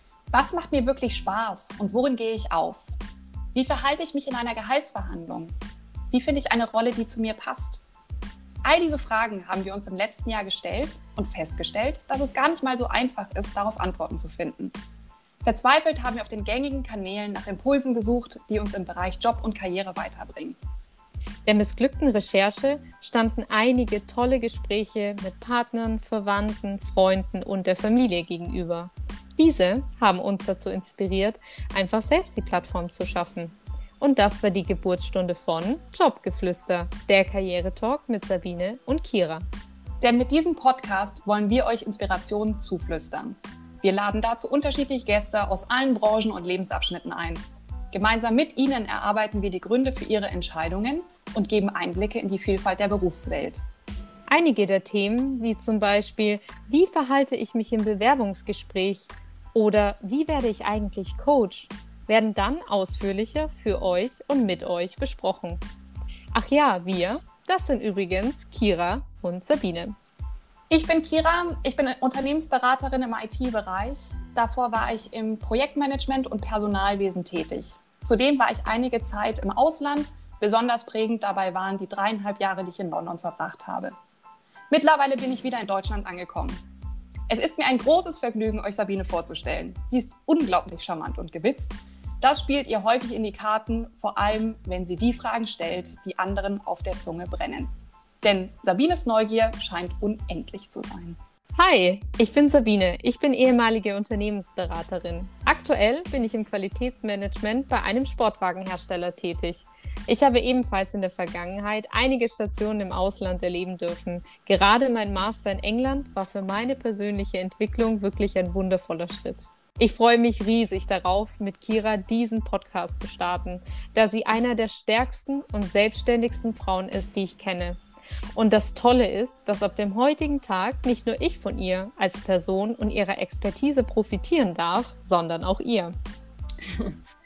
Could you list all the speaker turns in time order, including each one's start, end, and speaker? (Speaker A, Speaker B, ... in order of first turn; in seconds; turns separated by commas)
Speaker A: 0.3-2.9, Speaker A: 3.5-5.5, Speaker A: 6.1-7.8, Speaker A: 8.6-14.7, Speaker A: 15.4-20.6, Speaker B: 21.4-39.5, Speaker A: 40.0-53.6, Speaker B: 54.3-65.6, Speaker B: 66.3-70.0, Speaker A: 70.7-84.0, Speaker A: 84.7-86.6, Speaker A: 87.3-97.7, Speaker A: 98.2-101.2, Speaker B: 101.6-127.8, Speaker B: 128.3-135.9, Speaker A: 136.6-136.9